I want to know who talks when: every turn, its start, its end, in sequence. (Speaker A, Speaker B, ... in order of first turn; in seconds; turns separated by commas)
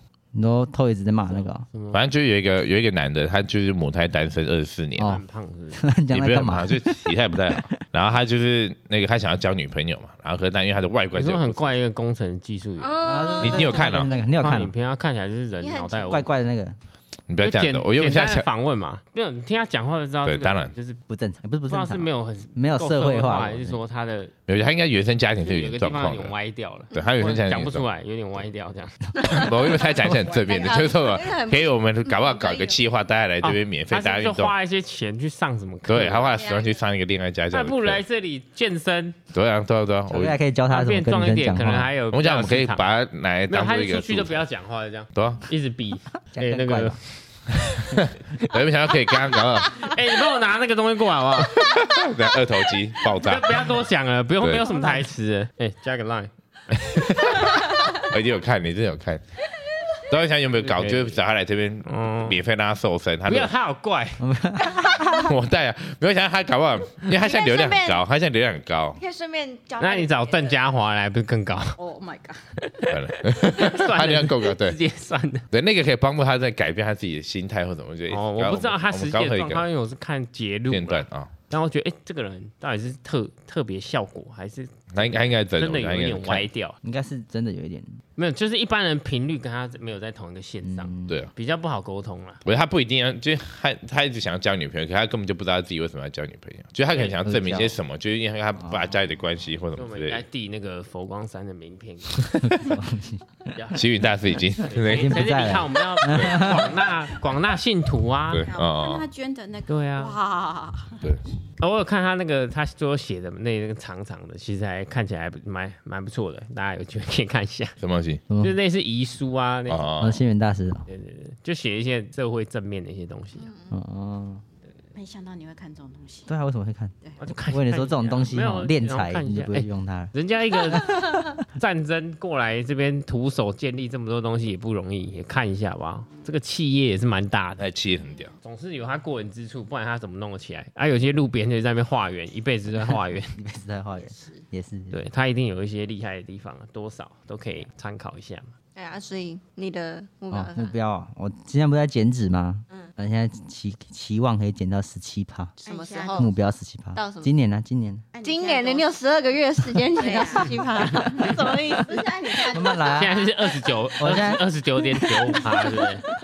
Speaker A: 0.3-1.6, Speaker B: 1.3-2.0, Speaker C: 1.9-5.2, Speaker A: 5.0-5.2, Speaker B: 5.0-5.8, Speaker A: 5.8-7.8, Speaker C: 6.1-11.7, Speaker B: 11.2-13.0, Speaker D: 12.8-14.2, Speaker A: 13.0-14.7, Speaker C: 13.4-14.1, Speaker B: 14.4-16.3, Speaker D: 15.6-16.2, Speaker A: 16.1-16.8, Speaker C: 17.3-18.5, Speaker B: 17.4-21.0, Speaker C: 20.2-20.7, Speaker A: 21.1-23.8, Speaker B: 21.7-24.3, Speaker C: 24.5-26.3, Speaker B: 25.4-29.0, Speaker C: 26.9-27.9, Speaker C: 29.2-34.5, Speaker D: 29.2-32.8, Speaker B: 33.4-36.4, Speaker C: 35.9-38.0, Speaker D: 36.4-36.7, Speaker B: 37.5-39.2, Speaker C: 39.3-40.4, Speaker A: 40.1-41.9, Speaker B: 40.7-42.9, Speaker C: 42.1-44.4, Speaker B: 43.5-47.0, Speaker C: 45.1-45.4, Speaker A: 46.3-47.0, Speaker C: 47.5-50.0, Speaker B: 49.8-51.8, Speaker C: 51.6-53.7, Speaker B: 53.2-56.3, Speaker C: 56.7-59.2, Speaker B: 56.8-57.4, Speaker C: 60.0-63.5, Speaker B: 60.6-61.2, Speaker B: 61.9-62.4, Speaker B: 63.3-64.2, Speaker A: 64.2-65.2, Speaker C: 65.1-69.0, Speaker D: 67.2-68.0, Speaker D: 69.0-70.7, Speaker B: 69.8-71.8, Speaker E: 71.8-72.6, Speaker B: 72.6-75.5, Speaker C: 72.9-74.8, Speaker C: 75.5-79.7, Speaker B: 78.1-86.8, Speaker C: 80.7-81.3, Speaker C: 84.9-86.5, Speaker A: 86.8-88.0, Speaker B: 88.2-92.4, Speaker A: 90.6-91.2, Speaker C: 91.1-91.3, Speaker C: 92.5-100.2, Speaker B: 96.9-97.2, Speaker A: 97.2-97.8, Speaker A: 98.6-99.0, Speaker B: 99.7-102.4, Speaker C: 102.2-102.8, Speaker A: 102.4-103.2, Speaker B: 103.5-104.0, Speaker C: 103.7-105.5, Speaker B: 104.5-108.5, Speaker A: 104.8-106.7, Speaker C: 106.0-106.4, Speaker C: 108.3-109.1, Speaker E: 108.4-111.0, Speaker B: 109.7-110.2, Speaker B: 111.6-117.8, Speaker C: 117.8-118.2, Speaker A: 118.3-118.6, Speaker B: 118.4-119.9, Speaker C: 119.7-120.2, Speaker A: 120.0-120.8, Speaker B: 120.9-123.5, Speaker D: 123.4-123.8, Speaker A: 123.7-124.4, Speaker E: 125.0-126.3, Speaker A: 126.3-130.1, Speaker B: 127.2-137.6, Speaker A: 130.7-131.3, Speaker C: 137.6-138.3, Speaker B: 138.4-143.4, Speaker A: 142.9-145.0, Speaker B: 144.9-148.5, Speaker D: 148.8-150.8, Speaker A: 150.3-155.6, Speaker E: 155.6-156.3, Speaker D: 155.7-156.3, Speaker A: 156.2-158.1, Speaker D: 156.9-157.3, Speaker E: 158.1-158.9, Speaker D: 158.2-162.8, Speaker E: 159.9-163.2, Speaker A: 162.4-163.2, Speaker B: 162.9-166.1, Speaker A: 164.0-164.5